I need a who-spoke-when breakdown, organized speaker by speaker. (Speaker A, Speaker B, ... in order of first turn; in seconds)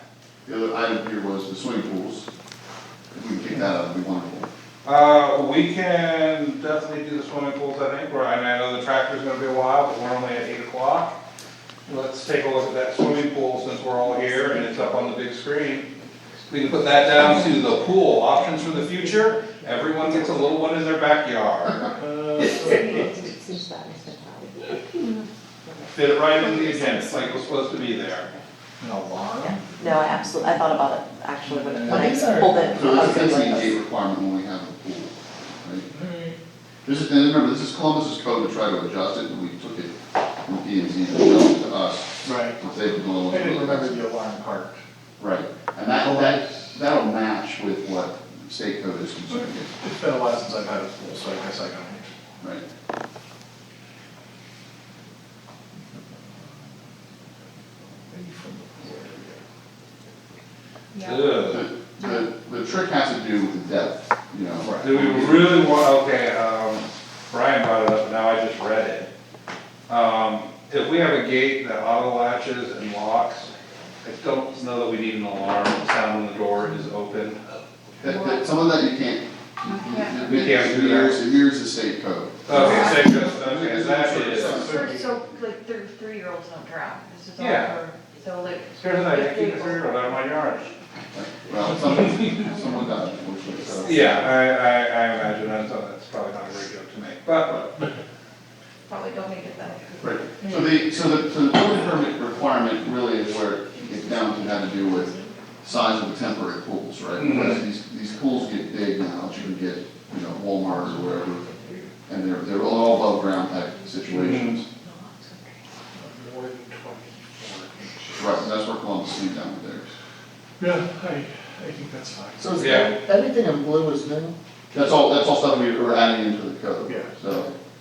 Speaker A: 0.5-2.3, 3.1-4.5, 32.7-35.9, 36.9-44.0, 45.2-49.7, 61.4-65.7, 78.0-85.0, 91.1-94.2, 100.0-114.7, 118.2-119.9, 124.7-127.5
Speaker B: 4.8-11.2, 11.9-15.9, 16.5-22.0, 25.9-28.3, 61.0-61.7, 64.8-69.1, 69.9-73.5, 74.0-77.4, 80.2-81.2, 82.5-84.6, 87.4-87.8, 88.8-90.7, 93.8-97.6, 107.2-107.6, 114.1-114.6, 122.6-122.9
Speaker C: 18.8-20.7, 22.5-24.5, 31.9-33.2, 122.4-124.4
Speaker D: 22.0-23.2, 28.8-30.9, 31.4-32.9, 35.9-36.4, 42.2-42.6, 43.3-44.8, 45.9-46.8, 49.3-52.2, 58.1-59.4, 84.6-85.0, 115.9-118.5, 120.6-123.0, 126.8-127.2
Speaker E: 23.2-24.8, 26.7-27.4, 29.5-33.7
Speaker F: 60.9-62.2, 78.0-78.5, 79.7-80.2, 82.5-83.4, 84.5-90.6, 92.3-93.0, 98.9-100.2